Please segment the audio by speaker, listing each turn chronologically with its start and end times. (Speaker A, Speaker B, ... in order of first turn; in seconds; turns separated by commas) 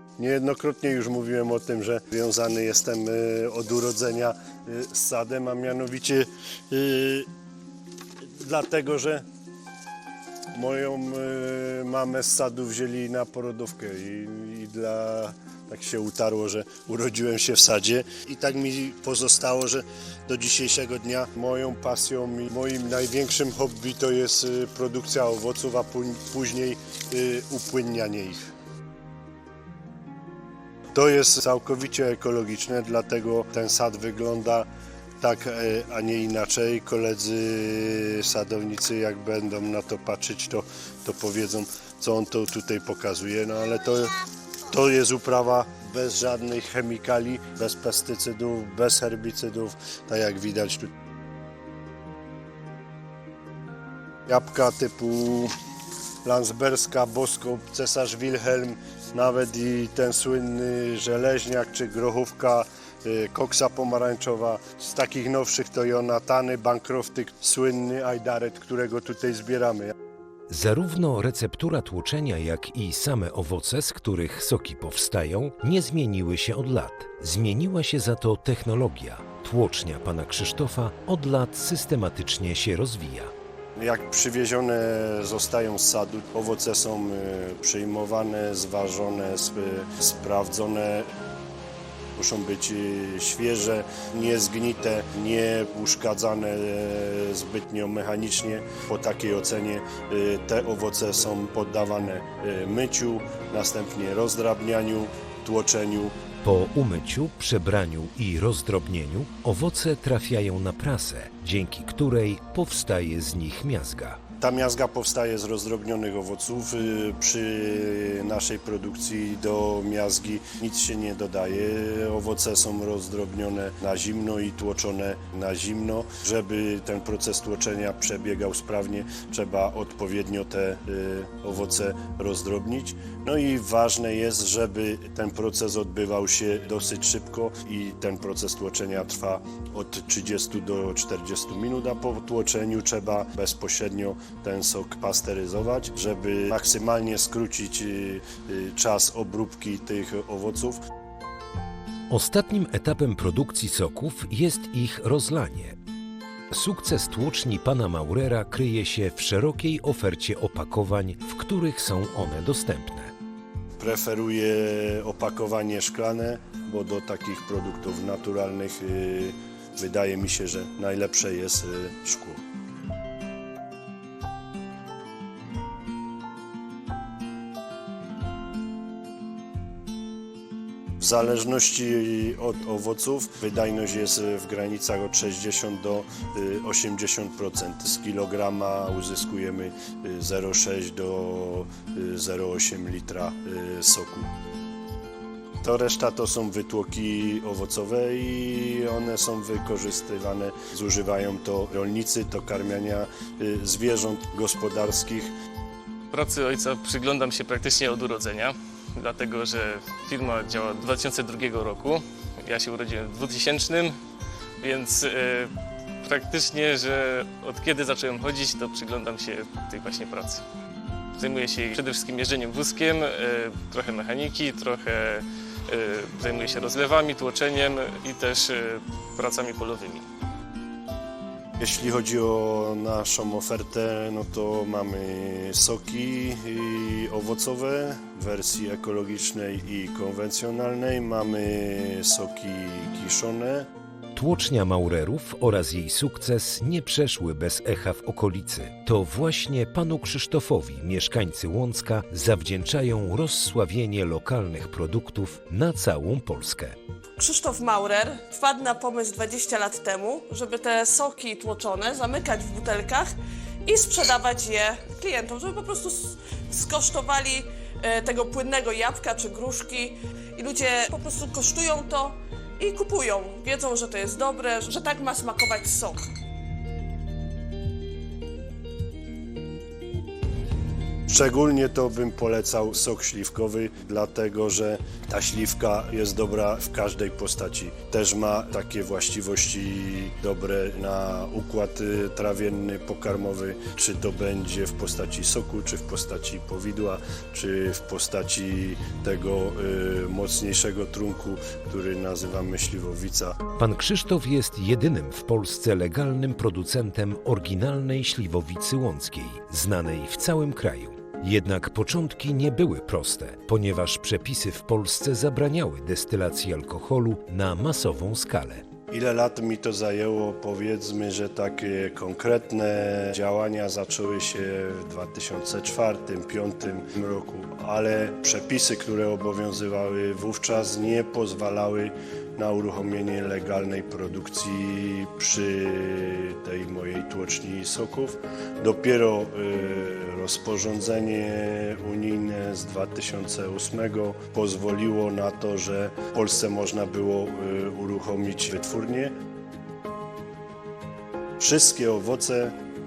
Speaker A: 0.2-7.3, Speaker A: 8.2-9.2, Speaker A: 10.5-28.5, Speaker A: 30.9-34.7, Speaker A: 35.2-44.1, Speaker A: 44.7-50.9, Speaker A: 54.3-55.5, Speaker A: 56.2-69.9, Speaker B: 70.5-83.3, Speaker A: 83.8-91.1, Speaker A: 92.1-106.1, Speaker B: 106.4-114.2, Speaker A: 114.4-150.8, Speaker B: 152.1-155.8, Speaker B: 156.5-163.1, Speaker A: 163.8-172.4, Speaker A: 181.0-194.3, Speaker A: 195.6-205.3, Speaker C: 206.1-214.0, Speaker C: 214.6-220.4, Speaker C: 221.2-230.1, Speaker A: 231.6-243.7, Speaker B: 244.1-256.8, Speaker D: 257.2-263.1, Speaker D: 263.6-276.0, Speaker A: 281.1-303.4, Speaker B: 303.6-318.6, Speaker A: 318.9-349.1, Speaker A: 351.4-352.5